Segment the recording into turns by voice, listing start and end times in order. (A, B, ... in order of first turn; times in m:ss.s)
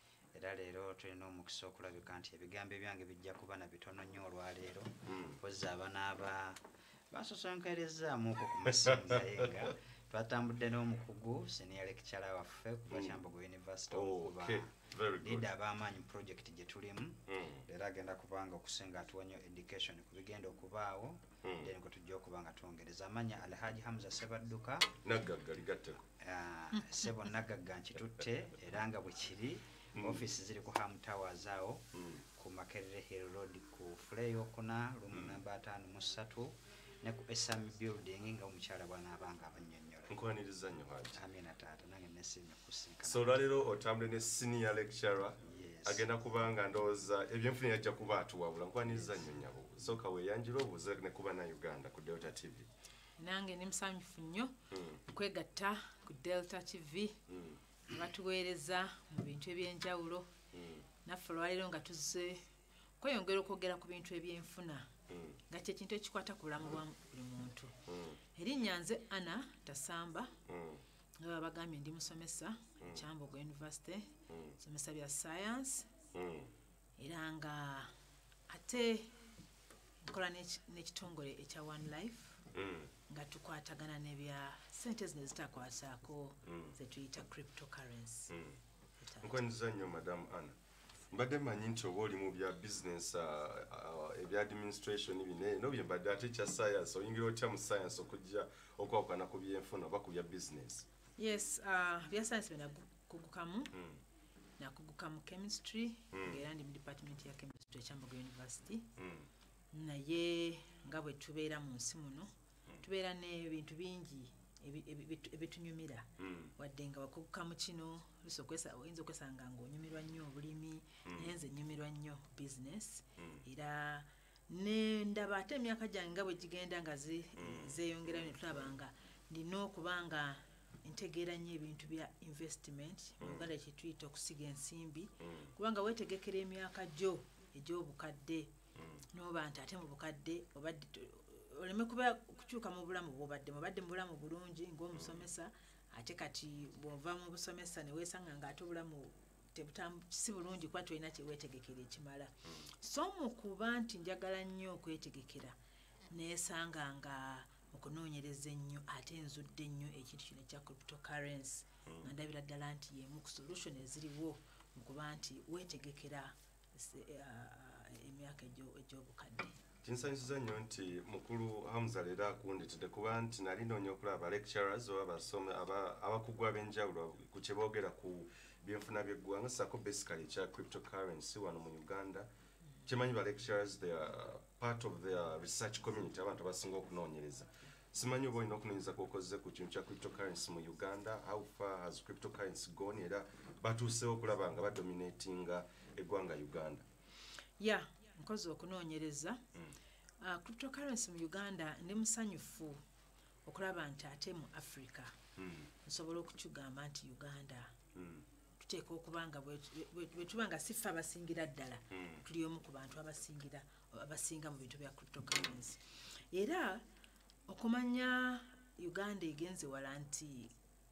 0:00.3-0:24.9 A
0:05.1-0:05.4 B
0:08.6-0:09.7 B
0:12.9-0:13.2 B
0:13.9-0:15.5 B
0:17.3-0:17.7 B
0:21.4-0:21.7 B
0:25.0-0:26.0 B
0:26.2-0:40.2 A
0:26.7-0:27.2 C
0:30.0-0:30.3 B
0:32.0-0:32.2 B
0:35.1-0:35.4 B
0:40.1-0:41.2 B
0:41.1-0:43.4 A
0:43.0-0:52.7 B
0:45.4-0:46.1 A
0:48.9-0:49.2 A
0:53.2-0:54.6 C
0:54.7-0:55.0 B
0:55.1-0:57.2 C
0:57.3-0:57.6 B
0:57.9-1:00.3 C
1:00.5-1:00.9 B
1:01.0-1:02.5 C
1:03.0-1:04.9 C
1:05.1-1:05.4 B
1:05.5-1:07.8 C
1:07.9-1:08.2 B
1:08.4-1:10.3 C
1:10.5-1:10.8 B
1:11.2-1:15.9 C
1:14.3-1:14.6 B
1:16.1-1:16.5 B
1:17.0-1:17.9 C
1:18.5-1:19.2 C
1:20.0-1:22.4 C
1:22.5-1:22.9 B
1:23.1-1:28.3 C
1:26.5-1:26.8 B
1:28.3-1:28.6 B
1:29.0-1:29.4 C
1:29.2-1:30.6 B
1:31.1-1:40.9 B
1:41.2-1:43.7 C
1:43.7-1:44.0 B
1:44.6-1:48.9 C
1:46.1-1:46.4 B
1:49.0-1:49.3 B
1:49.7-1:52.3 C
1:52.8-2:18.5 C
1:56.2-1:56.5 B
2:01.1-2:01.4 B
2:03.2-2:03.4 B
2:07.4-2:08.7 B
2:13.2-2:13.5 B
2:15.2-2:15.5 B
2:18.8-2:19.1 B
2:19.1-2:35.6 C
2:24.9-2:25.3 B
2:36.1-2:49.6 C
2:49.8-3:02.3 B
3:02.8-3:16.8 B
3:17.6-3:19.4 C
3:20.2-3:22.8 C
3:23.5-3:25.2 C
3:25.4-3:25.7 B
3:25.8-3:27.8 C
3:28.0-3:28.3 B
3:28.6-3:35.8 C
3:31.9-3:32.2 B
3:36.3-3:36.8 C
3:37.5-3:40.5 C